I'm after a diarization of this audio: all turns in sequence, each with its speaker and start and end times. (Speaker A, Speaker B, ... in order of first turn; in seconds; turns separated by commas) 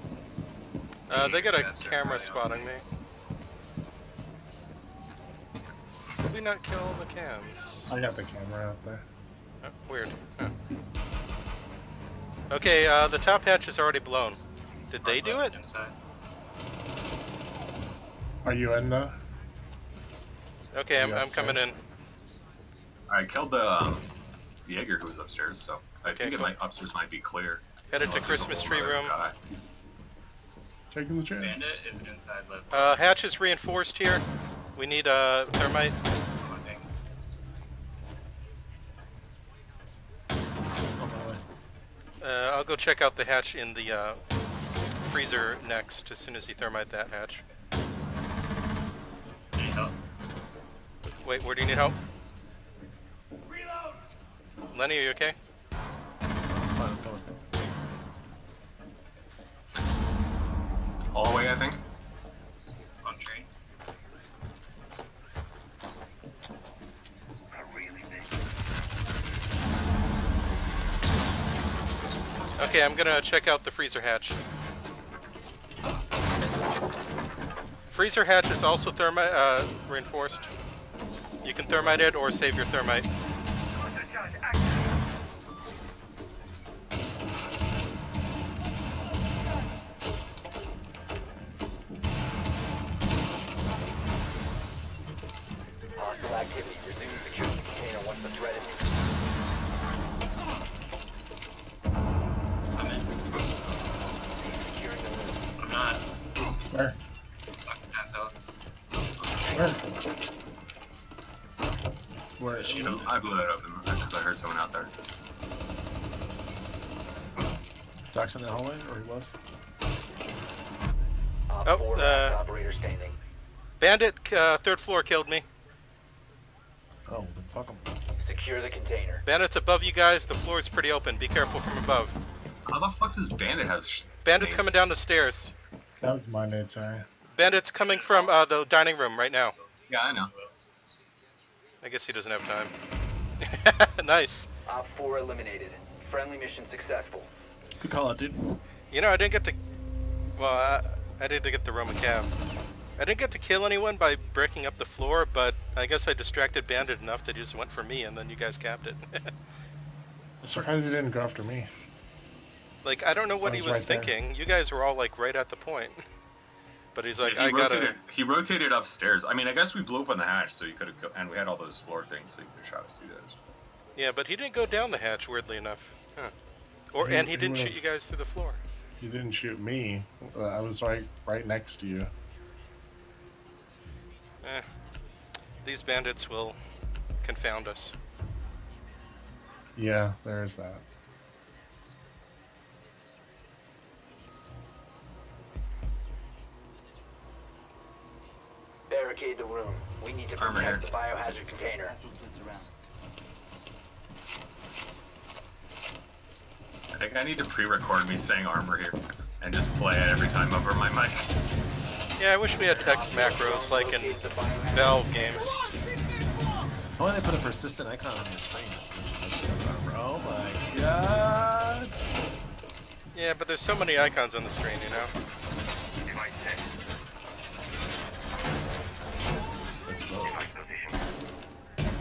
Speaker A: 1.1-2.8, Speaker B: 1.1-2.7, Speaker A: 6.2-7.9, Speaker C: 7.9-9.0, Speaker A: 9.6-10.5, Speaker A: 12.5-14.4, Speaker A: 14.9-15.5, Speaker B: 15.0-15.9, Speaker C: 18.4-19.1, Speaker A: 20.7-21.8, Speaker C: 20.9-21.6, Speaker D: 23.1-24.1, Speaker D: 24.6-29.3, Speaker A: 26.1-26.6, Speaker A: 27.9-29.1, Speaker C: 30.9-31.6, Speaker B: 31.4-33.1, Speaker A: 32.7-34.2, Speaker A: 34.8-36.0, Speaker B: 36.4-36.9, Speaker E: 41.0-41.4, Speaker A: 42.2-44.2, Speaker A: 45.0-47.4, Speaker B: 49.5-50.0, Speaker A: 51.2-52.0, Speaker A: 54.7-55.4, Speaker E: 56.5-57.3, Speaker D: 61.1-61.8, Speaker B: 63.0-63.5, Speaker A: 72.6-74.4, Speaker A: 77.9-80.5, Speaker A: 81.4-83.1, Speaker F: 96.0-98.9, Speaker B: 102.7-103.1, Speaker F: 104.4-105.4, Speaker B: 105.6-106.1, Speaker C: 106.7-107.0, Speaker B: 107.6-108.4, Speaker B: 109.2-109.5, Speaker C: 109.5-109.9, Speaker C: 112.4-113.0, Speaker B: 112.5-113.1, Speaker D: 112.8-114.9, Speaker E: 118.1-119.3, Speaker F: 121.5-123.2, Speaker A: 121.7-122.4, Speaker A: 123.8-125.4, Speaker E: 127.1-127.8, Speaker F: 128.2-129.2, Speaker A: 129.2-132.1, Speaker D: 132.7-134.8, Speaker A: 134.2-135.5, Speaker C: 136.0-137.1, Speaker A: 137.3-139.5, Speaker B: 137.9-138.4, Speaker B: 139.5-140.5, Speaker D: 139.9-140.3, Speaker A: 141.8-142.7, Speaker A: 143.4-144.5, Speaker F: 144.7-147.3, Speaker E: 147.8-148.6, Speaker A: 148.9-149.6, Speaker A: 150.4-152.3, Speaker A: 153.0-159.3, Speaker C: 160.4-161.7, Speaker A: 162.8-166.0, Speaker C: 163.4-164.1, Speaker A: 166.9-168.0, Speaker D: 167.2-173.4, Speaker A: 173.9-176.3, Speaker A: 176.9-178.6, Speaker C: 177.0-177.8, Speaker C: 179.0-182.1, Speaker A: 185.6-186.6, Speaker A: 187.2-188.0, Speaker C: 189.8-190.8, Speaker F: 198.9-201.9, Speaker D: 200.4-200.9, Speaker D: 206.9-211.3, Speaker A: 212.2-214.2, Speaker F: 212.7-215.4, Speaker A: 214.7-215.6, Speaker E: 216.9-221.9, Speaker A: 223.1-225.1, Speaker E: 229.8-230.6